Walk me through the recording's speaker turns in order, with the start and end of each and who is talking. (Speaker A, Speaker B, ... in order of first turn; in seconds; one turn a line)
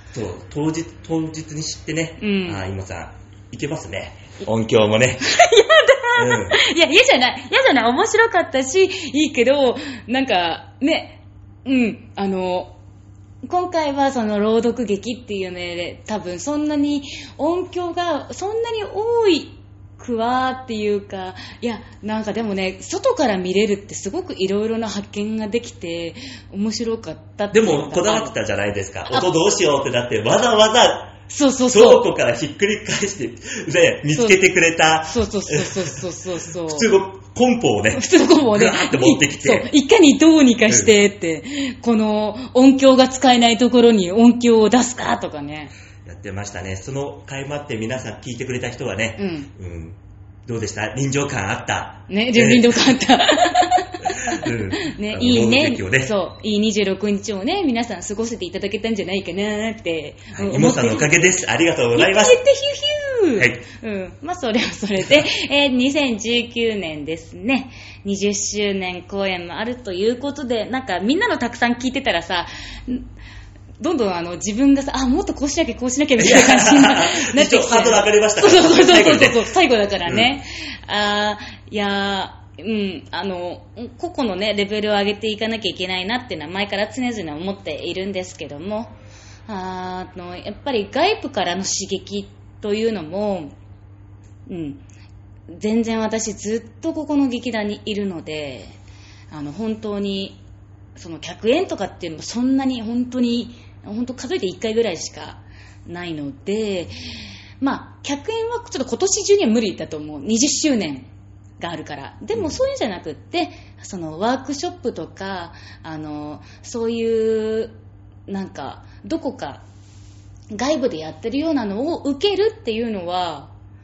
Speaker A: 0.1-5.2
Speaker B: 2.2-2.6
Speaker B: 5.2-12.8
Speaker A: 6.1-6.6
Speaker B: 13.4-28.3
Speaker A: 27.5-36.0
Speaker B: 31.3-32.1
Speaker B: 34.1-34.4
Speaker B: 35.1-36.9
Speaker A: 36.6-39.7
Speaker B: 38.0-45.7
Speaker A: 40.7-41.0
Speaker A: 46.0-52.9
Speaker B: 49.2-49.5
Speaker B: 52.1-61.2
Speaker A: 54.1-56.2
Speaker A: 60.3-62.4
Speaker B: 61.9-73.1
Speaker A: 63.4-63.6
Speaker B: 73.8-88.9
Speaker A: 76.2-79.5
Speaker A: 80.0-80.4
Speaker B: 89.5-93.6
Speaker B: 94.5-94.8
Speaker B: 95.5-98.8
Speaker B: 99.3-100.4
Speaker B: 101.0-107.0
Speaker B: 107.6-111.1
Speaker B: 111.6-117.8
Speaker A: 112.3-112.6
Speaker B: 118.3-119.6
Speaker B: 120.5-123.5